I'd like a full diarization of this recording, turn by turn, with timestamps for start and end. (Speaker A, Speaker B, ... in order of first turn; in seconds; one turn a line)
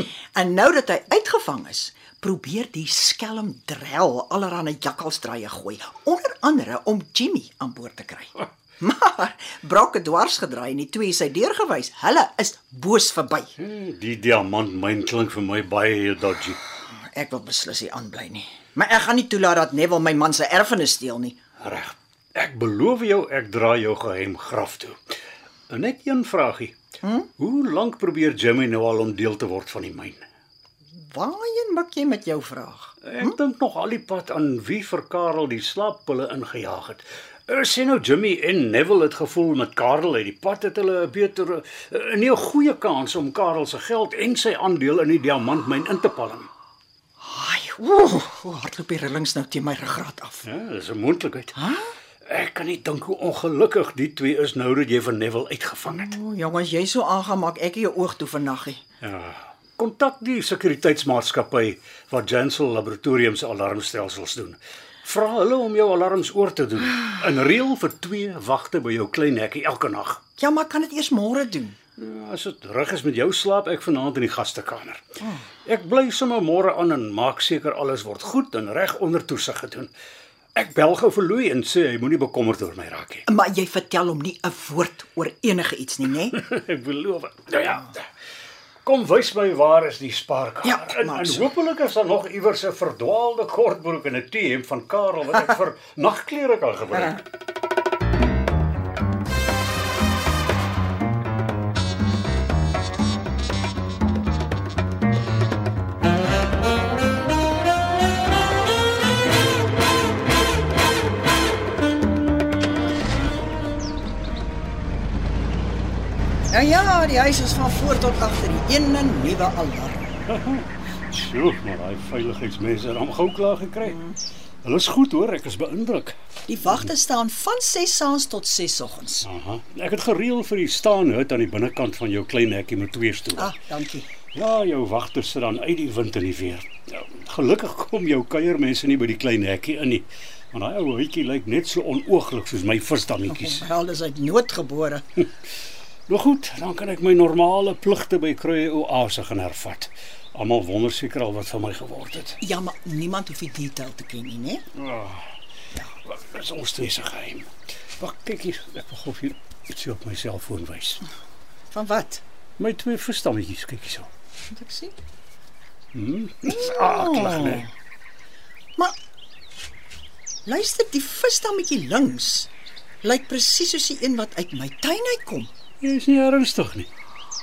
Speaker A: 0.3-13.5
Speaker B: 13.6-16.6
Speaker A: 17.1-21.4
Speaker B: 21.6-25.0
Speaker B: 25.7-26.7
Speaker A: 27.0-27.3
Speaker B: 27.4-30.2
Speaker A: 31.0-33.4
Speaker B: 33.0-46.5
Speaker A: 47.2-50.5
Speaker B: 50.4-51.6
Speaker A: 51.5-51.9
Speaker B: 52.2-56.1
Speaker A: 55.9-58.8
Speaker B: 59.0-70.2
Speaker A: 70.4-71.8
Speaker B: 72.0-75.0
Speaker B: 75.7-79.9
Speaker B: 80.5-83.2
Speaker A: 83.3-86.3
Speaker B: 86.3-88.0
Speaker B: 88.8-97.2
Speaker A: 90.6-91.5
Speaker A: 116.5-120.2
Speaker B: 120.3-124.0
Speaker A: 123.8-124.2
Speaker B: 124.6-126.2
Speaker A: 126.5-129.3
Speaker B: 129.2-133.5
Speaker A: 133.3-134.1
Speaker B: 134.3-143.6
Speaker A: 143.2-145.0
Speaker B: 146.1-152.4
Speaker A: 152.4-154.6
Speaker B: 154.8-155.3
Speaker B: 156.0-161.0
Speaker A: 161.7-162.2
Speaker B: 162.6-164.1
Speaker A: 164.5-164.9
Speaker B: 165.9-167.7
Speaker A: 166.5-167.7
Speaker A: 170.4-172.5
Speaker A: 173.0-175.5
Speaker B: 175.8-176.9